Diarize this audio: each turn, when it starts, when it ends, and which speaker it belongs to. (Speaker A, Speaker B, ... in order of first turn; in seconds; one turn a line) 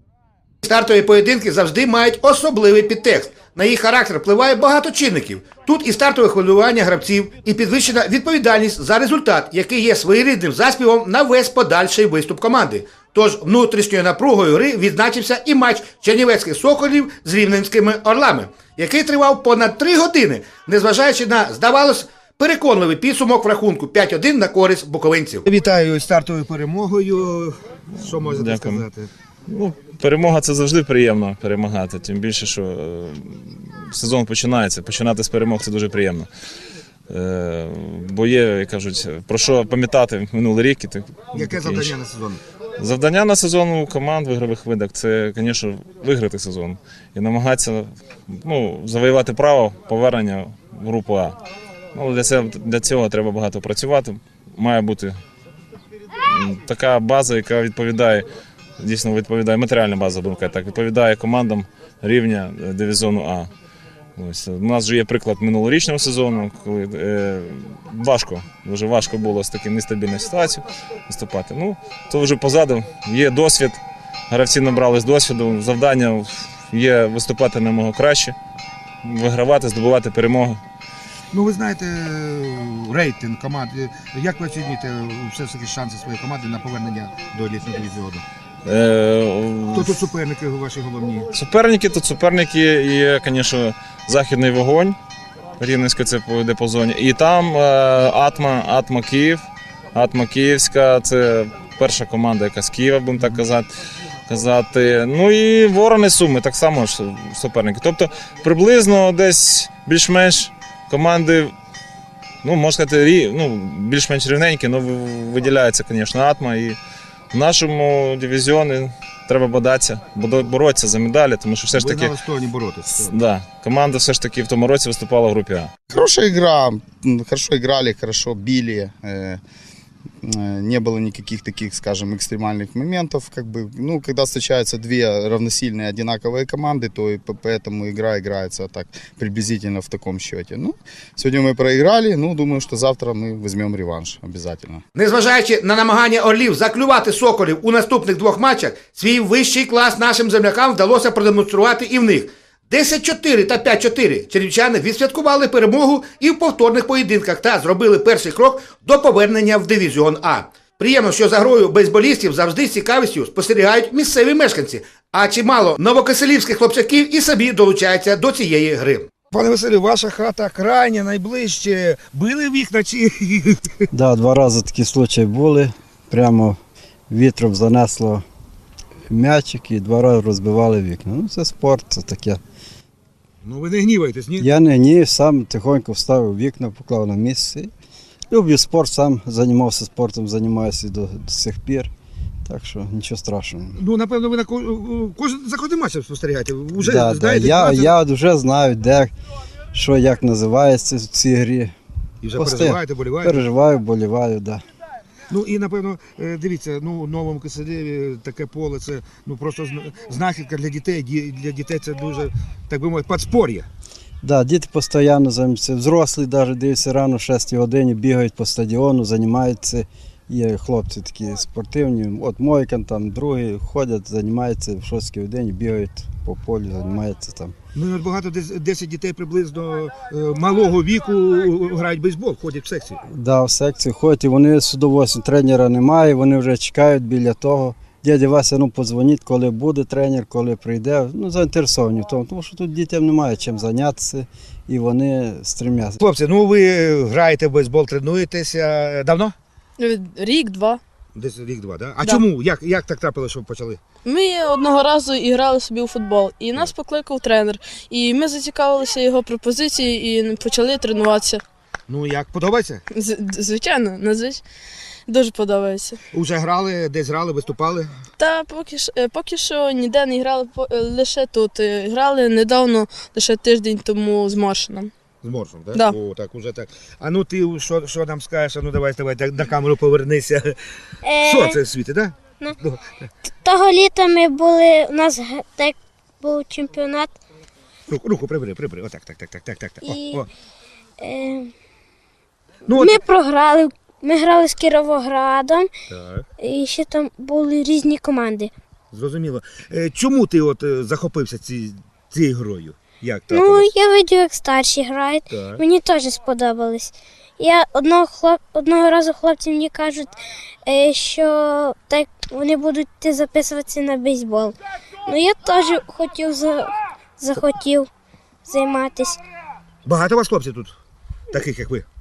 Speaker A: 0.6-29.1
Speaker B: 28.1-28.9
Speaker B: 29.5-36.3
Speaker B: 37.1-41.9
Speaker A: 41.3-42.4
Speaker B: 42.8-51.4
Speaker B: 51.9-55.2
Speaker B: 56.2-58.2
Speaker B: 58.8-63.5
Speaker B: 64.2-78.4
Speaker B: 79.0-80.6
Speaker A: 81.3-88.2
Speaker B: 88.7-90.1
Speaker A: 89.7-91.3
Speaker B: 91.3-95.0
Speaker B: 95.6-99.4
Speaker B: 99.9-103.7
Speaker B: 104.3-111.5
Speaker B: 112.4-116.8
Speaker B: 117.3-122.2
Speaker A: 121.7-123.2
Speaker B: 123.0-125.7
Speaker C: 125.9-129.4
Speaker C: 130.2-144.8
Speaker A: 145.0-173.8
Speaker D: 173.9-176.6
Speaker D: 177.1-178.2
Speaker D: 179.1-182.4
Speaker A: 183.4-184.5
Speaker D: 184.4-187.7
Speaker D: 188.3-191.9
Speaker D: 192.5-193.8
Speaker A: 193.8-197.9
Speaker D: 196.8-199.1
Speaker D: 199.7-201.7
Speaker A: 202.2-203.4
Speaker D: 202.3-204.6
Speaker A: 205.3-213.7
Speaker D: 214.2-227.5
Speaker A: 227.7-233.0
Speaker D: 233.1-246.0
Speaker A: 246.0-249.3
Speaker E: 249.8-250.8
Speaker A: 251.1-253.8
Speaker E: 254.1-261.4
Speaker A: 261.9-262.8
Speaker E: 262.9-264.4
Speaker E: 265.1-266.0
Speaker A: 266.1-267.9
Speaker E: 268.2-274.9
Speaker A: 275.2-280.6
Speaker E: 275.7-276.0
Speaker F: 281.1-281.5
Speaker A: 281.1-282.8
Speaker F: 283.4-287.1
Speaker A: 287.9-290.3
Speaker F: 289.9-290.2
Speaker F: 291.0-291.5
Speaker A: 292.7-293.1
Speaker F: 292.7-295.7
Speaker A: 295.9-296.3
Speaker F: 296.4-298.5
Speaker A: 298.9-303.8
Speaker F: 303.3-314.6
Speaker A: 305.3-305.6
Speaker F: 315.1-317.9
Speaker F: 318.5-319.2
Speaker A: 319.9-320.8
Speaker A: 321.3-321.9